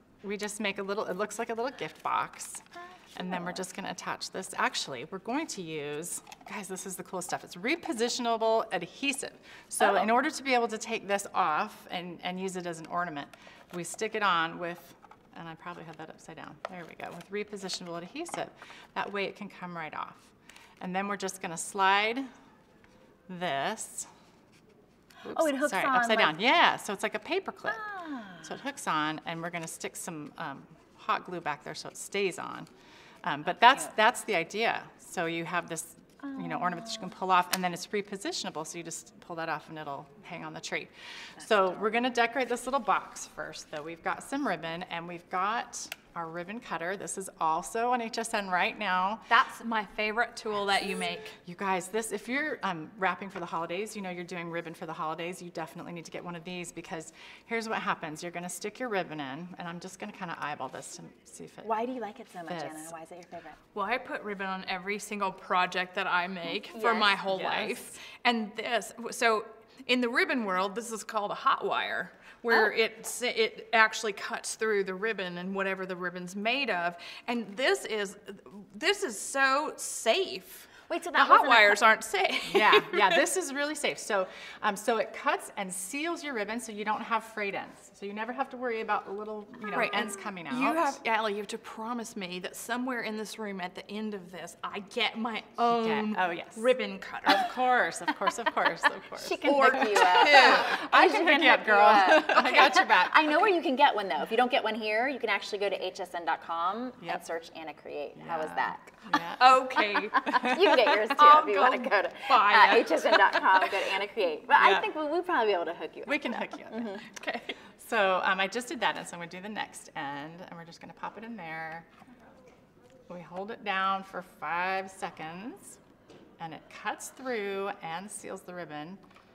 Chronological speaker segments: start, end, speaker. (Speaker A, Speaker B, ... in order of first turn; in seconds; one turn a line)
Speaker A: 0.2-22.3
Speaker A: 23.3-24.1
Speaker A: 25.2-27.9
Speaker B: 25.3-26.3
Speaker B: 27.7-28.5
Speaker A: 28.4-32.7
Speaker A: 33.2-49.3
Speaker B: 36.2-37.1
Speaker C: 49.3-51.4
Speaker A: 51.4-61.8
Speaker B: 61.6-63.6
Speaker A: 62.5-62.9
Speaker C: 63.7-83.2
Speaker B: 66.7-67.2
Speaker A: 67.3-68.0
Speaker B: 80.9-81.8
Speaker A: 82.5-91.0
Speaker C: 89.7-97.5
Speaker A: 95.6-96.7
Speaker A: 97.3-103.5
Speaker B: 99.2-109.0
Speaker C: 99.5-100.8
Speaker C: 102.3-102.8
Speaker A: 108.2-109.5
Speaker C: 109.4-113.7
Speaker B: 110.1-117.0
Speaker A: 110.3-110.7
Speaker A: 114.6-114.9
Speaker A: 116.0-117.0
Speaker C: 117.1-117.6
Speaker A: 117.8-121.9
Speaker A: 123.1-125.8
Speaker A: 126.4-129.0